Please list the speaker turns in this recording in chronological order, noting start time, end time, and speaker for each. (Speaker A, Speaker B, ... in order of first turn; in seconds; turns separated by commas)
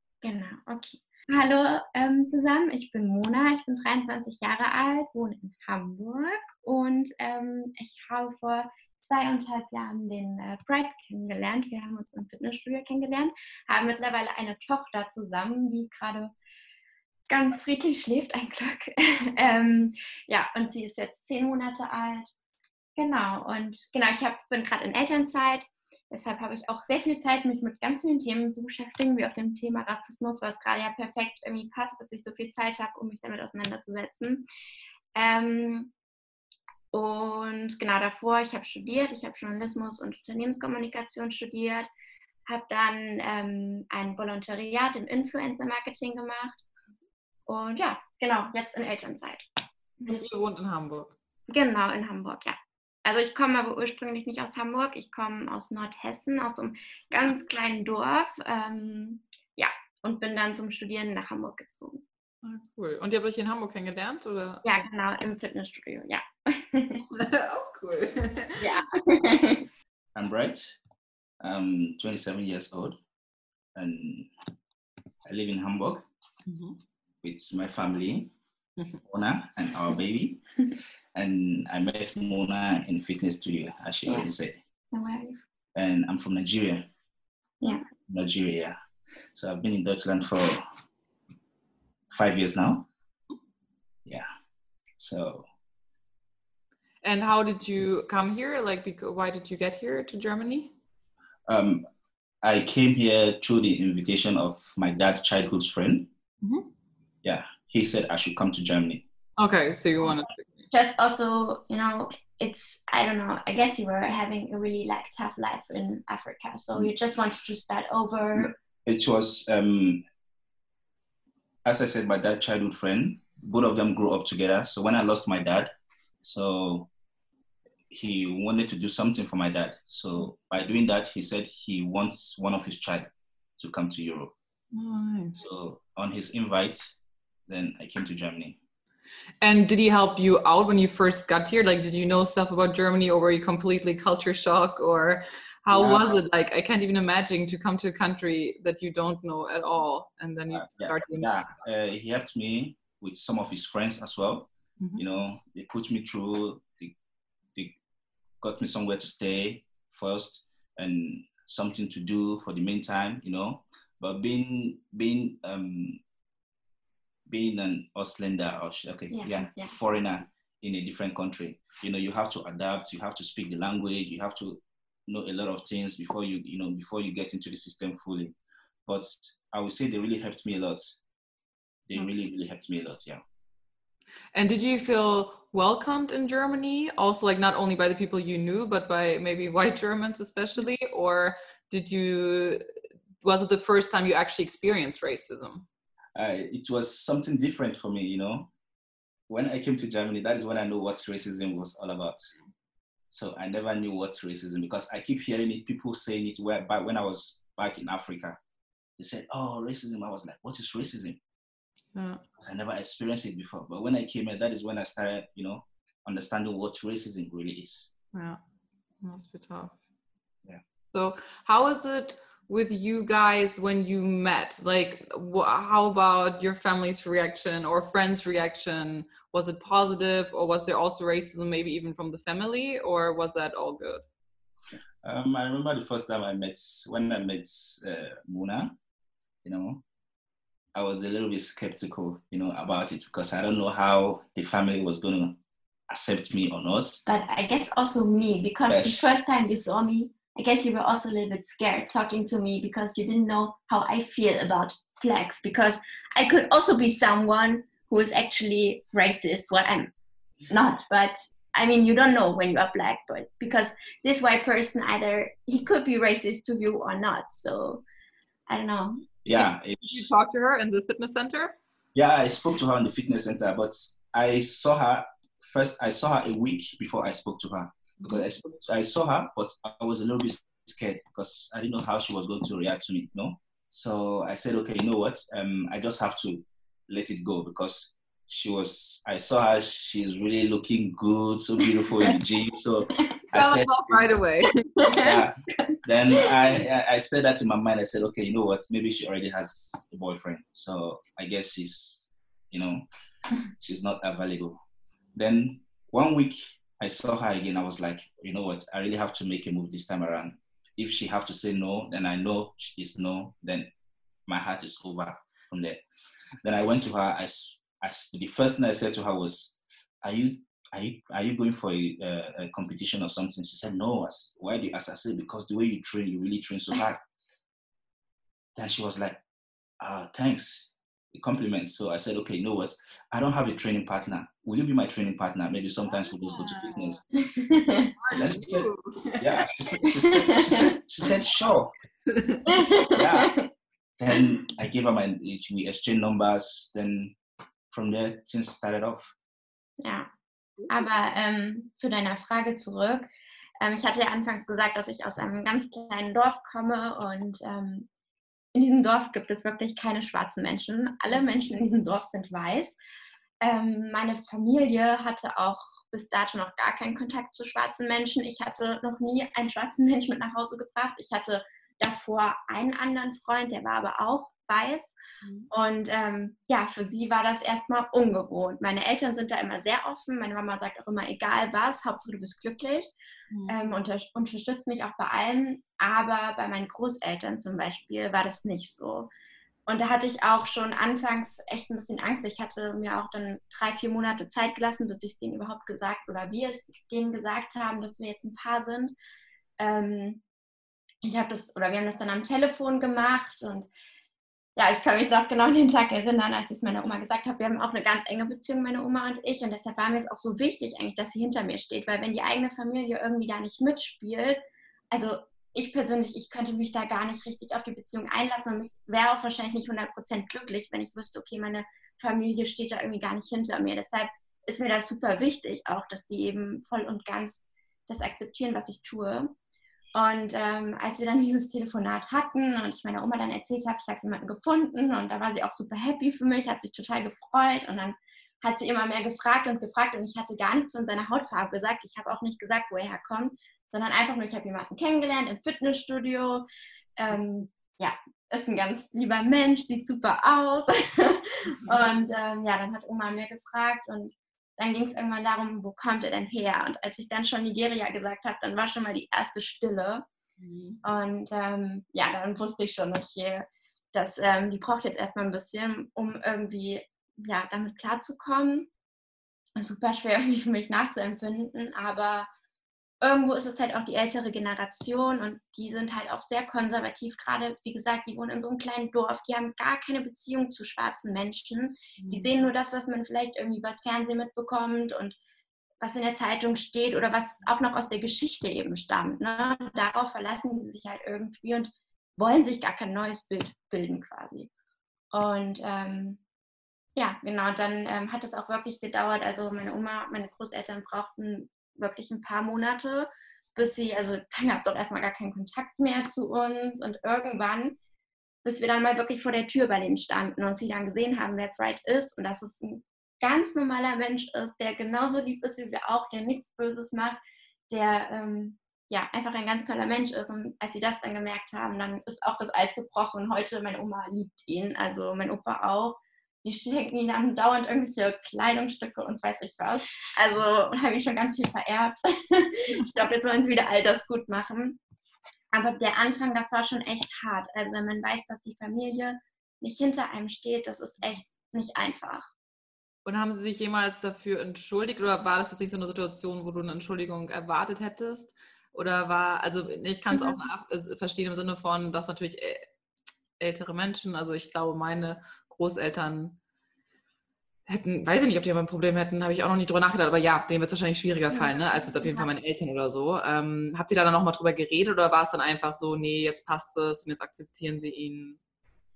Speaker A: 0.2-16.3, Speaker A: 17.3-22.3, Speaker A: 23.0-34.5, Speaker A: 35.1-35.9, Speaker A: 36.9-41.9, Speaker A: 42.5-46.6, Speaker A: 47.5-49.5, Speaker B: 50.1-51.1, Speaker A: 51.5-62.0, Speaker B: 62.4-64.7, Speaker A: 64.6-67.0, Speaker B: 67.1-68.7, Speaker A: 68.6-69.7, Speaker C: 70.2-70.8, Speaker C: 71.4-73.0, Speaker C: 73.8-74.3, Speaker C: 75.3-76.0, Speaker B: 76.5-76.8, Speaker C: 77.2-78.3, Speaker C: 79.1-80.4, Speaker C: 81.2-84.6, Speaker A: 84.1-84.3, Speaker A: 84.9-85.4, Speaker C: 85.8-86.8, Speaker C: 88.1-88.8, Speaker C: 89.3-90.7, Speaker C: 92.1-92.9, Speaker C: 95.0-95.5, Speaker B: 97.0-100.7, Speaker C: 101.5-101.8, Speaker C: 102.4-106.1, Speaker C: 107.2-109.0, Speaker B: 109.4-110.6, Speaker A: 110.7-118.5, Speaker C: 118.3-120.0, Speaker C: 121.7-125.7, Speaker C: 126.2-126.9, Speaker C: 127.9-134.3, Speaker B: 134.7-135.5, Speaker C: 135.4-136.9, Speaker C: 137.5-138.6, Speaker B: 139.4-151.3, Speaker C: 145.7-146.2, Speaker C: 150.5-156.9, Speaker B: 154.8-155.1, Speaker C: 158.4-166.0, Speaker C: 167.3-181.0, Speaker A: 169.1-169.8, Speaker C: 181.9-183.2, Speaker B: 184.3-192.6, Speaker B: 193.2-195.7, Speaker C: 196.2-198.5, Speaker C: 199.3-202.3, Speaker C: 203.1-208.4, Speaker C: 209.0-211.2, Speaker B: 211.9-212.2, Speaker C: 212.4-217.9, Speaker B: 218.1-218.4, Speaker B: 219.0-219.7, Speaker B: 220.9-234.1, Speaker C: 235.0-238.7, Speaker C: 239.4-239.8, Speaker C: 240.8-245.4, Speaker C: 245.9-247.0, Speaker A: 247.1-259.9, Speaker C: 248.7-249.1, Speaker A: 260.5-267.8, Speaker A: 268.5-269.1, Speaker C: 269.2-270.1, Speaker B: 269.4-271.6, Speaker C: 271.9-294.1, Speaker B: 293.3-295.0, Speaker C: 294.9-302.9, Speaker C: 303.6-304.6, Speaker C: 305.1-313.7, Speaker C: 314.3-315.8, Speaker C: 316.4-327.0, Speaker C: 328.6-329.2, Speaker C: 329.8-337.0, Speaker B: 335.9-337.0, Speaker A: 337.2-337.9, Speaker B: 338.0-339.3, Speaker C: 338.1-341.7, Speaker A: 340.1-340.6, Speaker B: 342.1-342.5, Speaker A: 342.5-343.4, Speaker C: 342.9-343.3, Speaker C: 344.0-347.2, Speaker C: 347.7-349.1, Speaker A: 349.8-350.1, Speaker B: 350.6-350.8, Speaker A: 350.7-353.1, Speaker A: 353.6-357.9, Speaker A: 358.5-362.8, Speaker A: 363.4-374.9, Speaker B: 375.2-375.5, Speaker A: 375.5-382.9, Speaker B: 383.3-383.6, Speaker A: 383.5-389.1, Speaker A: 389.7-398.9, Speaker A: 399.6-400.2, Speaker A: 401.0-403.7, Speaker A: 404.6-429.3, Speaker A: 429.9-446.4, Speaker A: 447.0-460.1, Speaker B: 460.4-460.8, Speaker A: 460.8-468.7, Speaker A: 469.6-472.3, Speaker A: 473.0-485.2, Speaker B: 482.0-482.3, Speaker A: 485.8-494.5, Speaker A: 495.1-496.2, Speaker A: 497.0-507.8, Speaker A: 508.4-534.8, Speaker A: 535.5-542.3, Speaker B: 543.0-552.7, Speaker A: 550.1-550.4, Speaker B: 553.4-556.4, Speaker B: 557.7-568.4, Speaker A: 561.3-562.3